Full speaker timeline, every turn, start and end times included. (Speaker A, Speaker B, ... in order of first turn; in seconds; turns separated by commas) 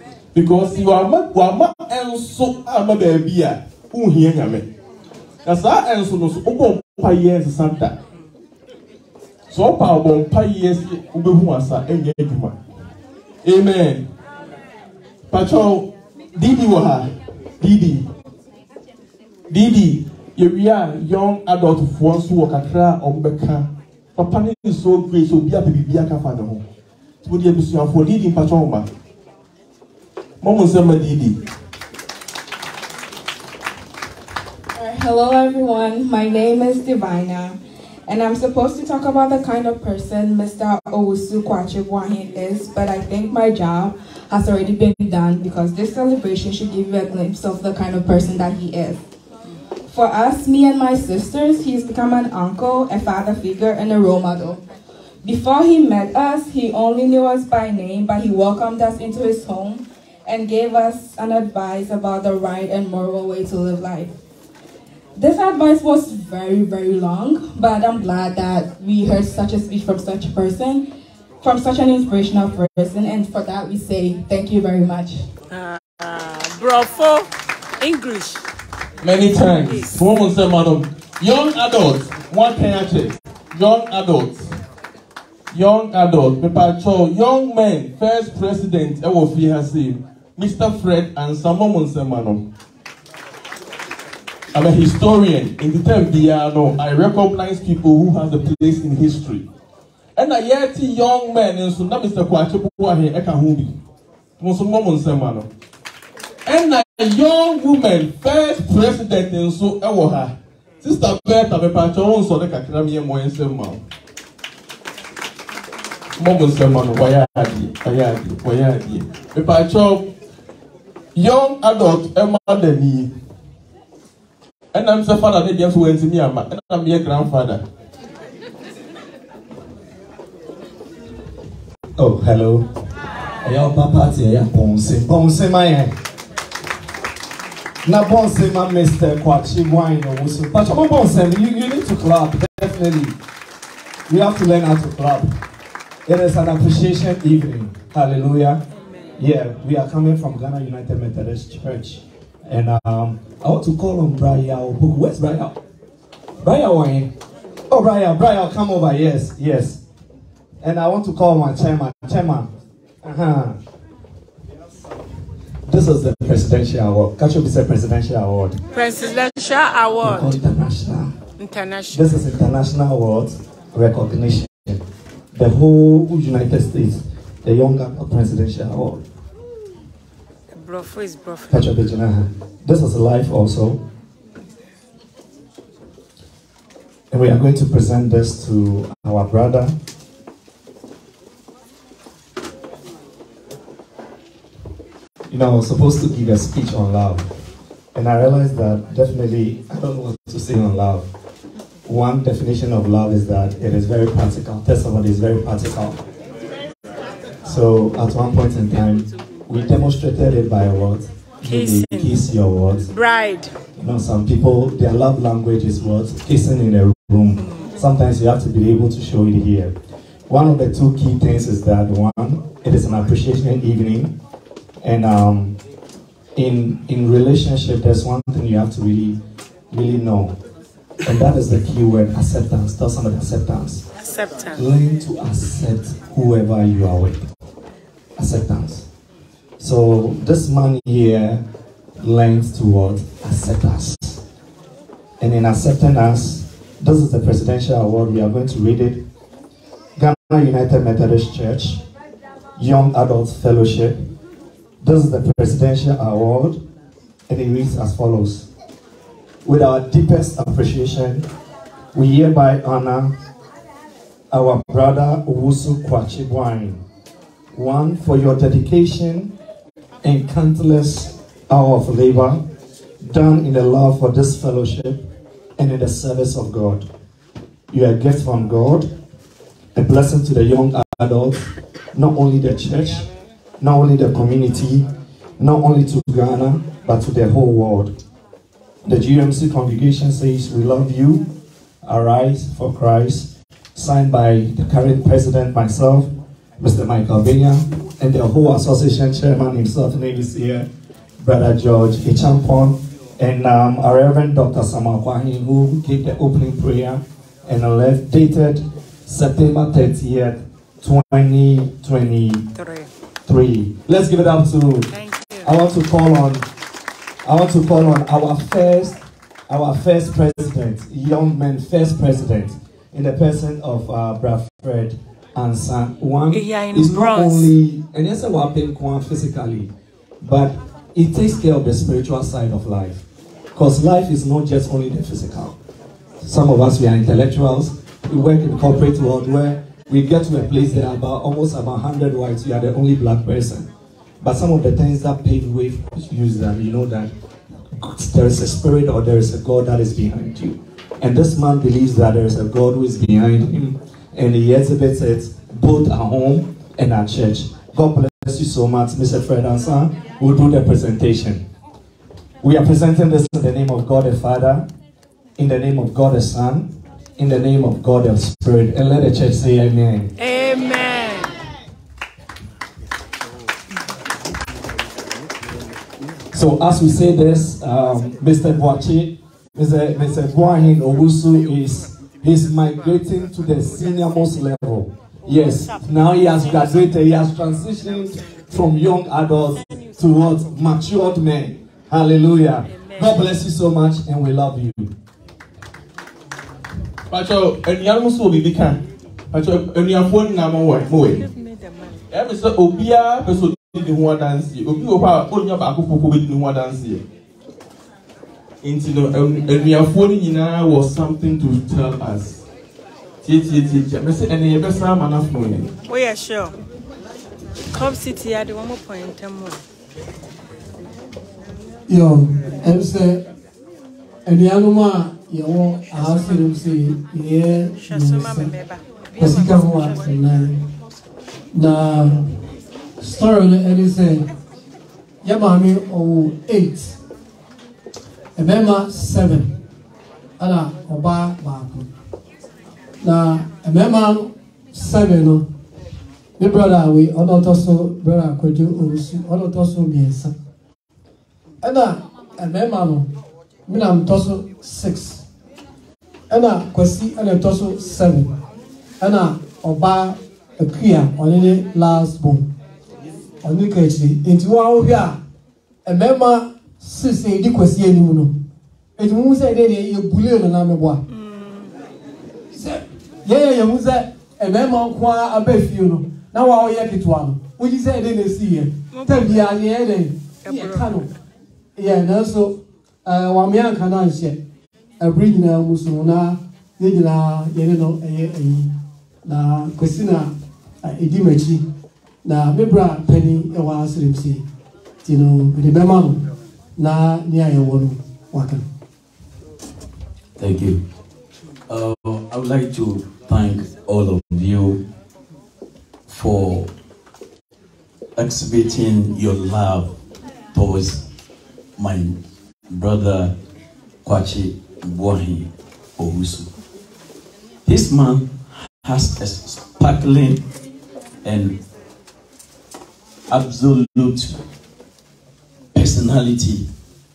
Speaker A: 0.3-4.7, Speaker A: 5.4-8.0, Speaker A: 9.5-12.6, Speaker A: 13.4-14.1, Speaker A: 15.3-18.1, Speaker A: 19.5-26.6, Speaker A: 27.2-28.9, Speaker A: 30.4-31.4, Speaker B: 34.7-49.0, Speaker B: 49.9-54.6, Speaker B: 55.2-64.1, Speaker B: 65.2-70.9, Speaker B: 71.4-75.2, Speaker C: 75.5-77.3, Speaker C: 77.8-78.4, Speaker A: 79.0-84.4, Speaker C: 79.3-80.0, Speaker A: 85.5-92.5, Speaker A: 94.5-99.5, Speaker A: 100.2-103.8, Speaker A: 104.4-105.5, Speaker A: 106.4-113.8, Speaker A: 116.2-120.1, Speaker A: 121.1-123.1, Speaker A: 124.7-127.6, Speaker D: 132.0-132.7, Speaker D: 133.4-135.9, Speaker D: 137.8-143.2, Speaker D: 144.1-145.3, Speaker D: 146.1-148.6, Speaker C: 148.7-149.1, Speaker D: 149.2-155.6, Speaker D: 156.4-157.1, Speaker D: 157.7-159.8, Speaker D: 160.6-162.5, Speaker D: 163.0-163.6, Speaker D: 165.7-168.6, Speaker C: 168.7-170.4, Speaker D: 170.0-171.1, Speaker C: 171.4-172.2, Speaker D: 171.9-174.8, Speaker D: 175.3-179.0, Speaker C: 180.5-181.7, Speaker D: 181.5-183.8, Speaker D: 187.1-189.8, Speaker D: 195.3-197.3, Speaker D: 197.9-201.1, Speaker D: 201.9-206.0, Speaker D: 207.4-212.9, Speaker C: 211.4-212.2, Speaker C: 212.9-213.5, Speaker D: 213.8-219.8, Speaker C: 217.4-217.7, Speaker D: 220.3-224.2, Speaker D: 224.8-225.6, Speaker D: 226.4-229.2, Speaker D: 229.7-230.3, Speaker D: 231.0-233.8, Speaker C: 233.9-234.7, Speaker D: 234.6-237.2, Speaker D: 238.2-238.9, Speaker D: 239.6-241.4, Speaker D: 242.0-244.2, Speaker D: 245.2-249.1, Speaker D: 250.0-251.8, Speaker D: 252.6-254.0, Speaker D: 254.8-256.6, Speaker D: 257.3-258.5, Speaker D: 259.4-261.3, Speaker D: 261.9-263.1, Speaker D: 264.3-266.8, Speaker D: 267.5-269.3, Speaker D: 270.0-272.4, Speaker D: 273.0-275.1, Speaker D: 275.6-276.9, Speaker D: 277.7-278.9, Speaker D: 279.7-283.1, Speaker D: 283.6-284.9, Speaker D: 285.4-288.0, Speaker D: 288.9-291.3, Speaker D: 291.8-300.7, Speaker D: 301.2-312.5, Speaker C: 312.6-312.9, Speaker D: 313.2-314.9, Speaker C: 314.9-315.5, Speaker D: 315.4-316.4, Speaker D: 317.2-329.7, Speaker C: 326.3-327.5, Speaker D: 330.2-333.0, Speaker D: 333.5-335.5, Speaker D: 336.2-343.7, Speaker D: 344.2-347.1, Speaker D: 347.8-361.4, Speaker D: 362.4-364.7, Speaker D: 365.4-370.1, Speaker C: 370.2-371.3, Speaker D: 376.3-394.9, Speaker C: 385.3-386.8, Speaker C: 392.7-393.2, Speaker A: 397.1-401.2, Speaker C: 400.9-402.0, Speaker A: 402.1-407.0, Speaker A: 408.6-412.4, Speaker A: 413.2-415.7, Speaker C: 415.9-416.6, Speaker C: 417.7-419.6, Speaker E: 421.9-423.2, Speaker E: 424.2-428.5, Speaker C: 426.0-426.3, Speaker C: 427.8-430.4, Speaker E: 429.2-430.6, Speaker E: 431.5-432.3, Speaker E: 433.0-434.2, Speaker E: 435.2-436.9, Speaker E: 438.4-439.6, Speaker E: 440.4-441.9, Speaker E: 443.0-445.4, Speaker E: 446.4-450.4, Speaker E: 451.6-453.1, Speaker E: 453.7-455.2, Speaker E: 456.3-458.3, Speaker E: 459.0-462.5, Speaker E: 463.4-465.2, Speaker E: 465.9-468.4, Speaker E: 469.0-471.0, Speaker C: 471.1-471.7, Speaker E: 472.5-481.1, Speaker C: 478.9-479.4, Speaker C: 480.4-481.0, Speaker E: 481.8-484.4, Speaker E: 485.0-488.7, Speaker E: 489.2-491.6, Speaker E: 492.2-494.4, Speaker E: 495.0-496.2, Speaker E: 496.8-498.6, Speaker F: 500.4-500.8, Speaker F: 501.7-504.8, Speaker F: 506.1-506.7, Speaker F: 508.1-509.9, Speaker F: 510.5-511.1, Speaker F: 511.8-513.4, Speaker F: 514.0-516.5, Speaker F: 517.6-520.4, Speaker F: 521.2-521.6, Speaker F: 523.3-524.4, Speaker F: 525.7-526.7